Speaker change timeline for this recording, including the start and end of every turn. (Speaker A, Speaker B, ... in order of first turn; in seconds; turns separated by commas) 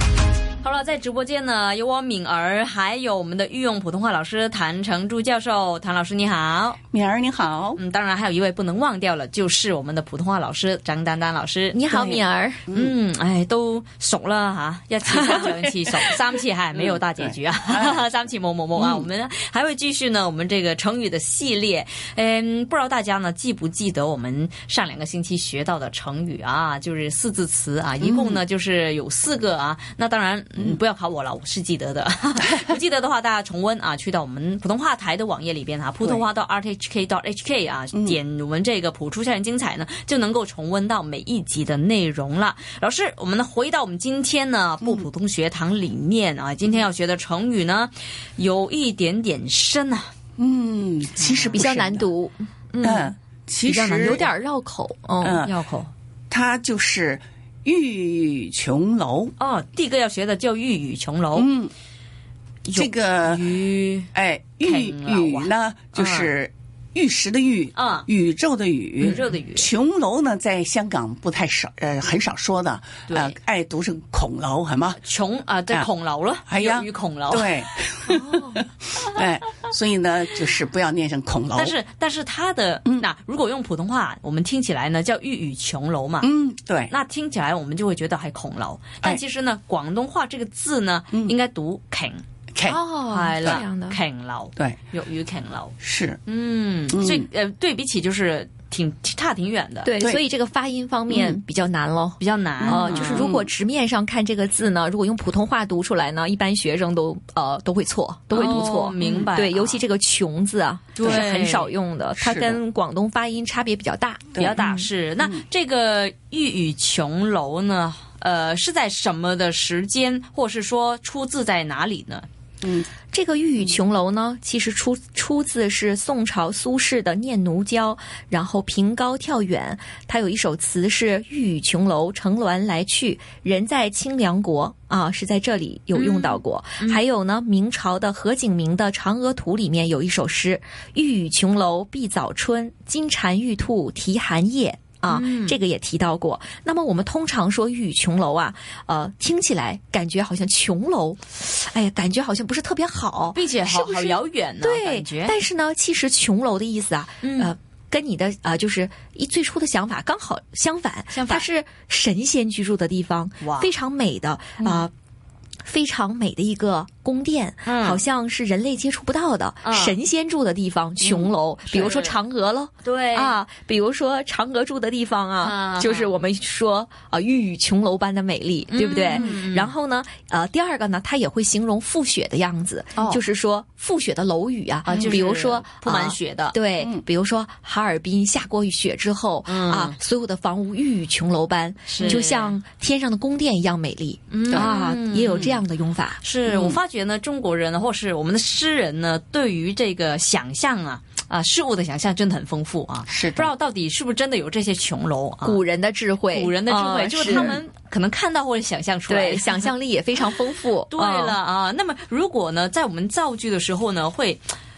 Speaker A: 0.6-6.8, Speaker B: 6.9-7.8, Speaker A: 7.8-50.1, Speaker C: 11.7-12.6, Speaker B: 12.7-12.9, Speaker B: 16.7-18.0, Speaker B: 18.8-19.1, Speaker B: 28.0-28.4, Speaker B: 50.4-52.1, Speaker A: 51.2-51.7, Speaker C: 51.5-55.8, Speaker B: 52.8-54.3, Speaker B: 55.2-55.6, Speaker B: 56.3-59.3, Speaker A: 59.4-61.5, Speaker B: 61.4-61.7, Speaker A: 62.7-64.1, Speaker B: 62.7-63.5, Speaker B: 64.1-75.0, Speaker A: 64.6-66.3, Speaker A: 67.8-68.1, Speaker A: 69.0-69.7, Speaker A: 73.1-73.4, Speaker A: 75.0-77.5, Speaker B: 76.5-81.8, Speaker C: 78.1-78.5, Speaker A: 81.6-86.3, Speaker B: 86.2-86.9, Speaker A: 86.9-92.2, Speaker B: 92.5-92.8, Speaker C: 92.6-94.0, Speaker A: 93.1-99.9, Speaker B: 95.8-96.2, Speaker B: 96.9-97.3, Speaker C: 99.8-114.8, Speaker B: 101.1-101.4, Speaker A: 102.2-103.3, Speaker B: 102.6-103.5, Speaker A: 108.3-109.8, Speaker B: 109.0-109.3, Speaker A: 111.0-111.7, Speaker B: 112.2-112.6, Speaker A: 114.4-122.3, Speaker B: 114.4-115.4, Speaker B: 122.6-122.9, Speaker C: 123.1-164.9, Speaker A: 135.9-137.0, Speaker A: 145.1-145.6, Speaker A: 153.3-155.4, Speaker A: 157.2-157.5, Speaker A: 161.1-161.5, Speaker A: 163.4-163.7, Speaker C: 165.7-196.2, Speaker A: 167.6-168.0, Speaker A: 169.6-170.0, Speaker B: 171.0-171.3, Speaker A: 171.7-172.2, Speaker A: 172.8-173.4, Speaker A: 175.4-176.1, Speaker A: 178.7-179.7, Speaker A: 184.8-186.6, Speaker B: 184.9-185.2, Speaker B: 186.8-187.0, Speaker A: 189.4-189.9, Speaker A: 191.9-192.6, Speaker A: 194.3-195.6, Speaker A: 196.2-205.6, Speaker B: 196.5-196.8, Speaker B: 203.1-203.5, Speaker C: 205.4-207.6, Speaker A: 206.3-209.7, Speaker B: 207.2-207.6, Speaker C: 209.1-211.4, Speaker A: 210.9-214.4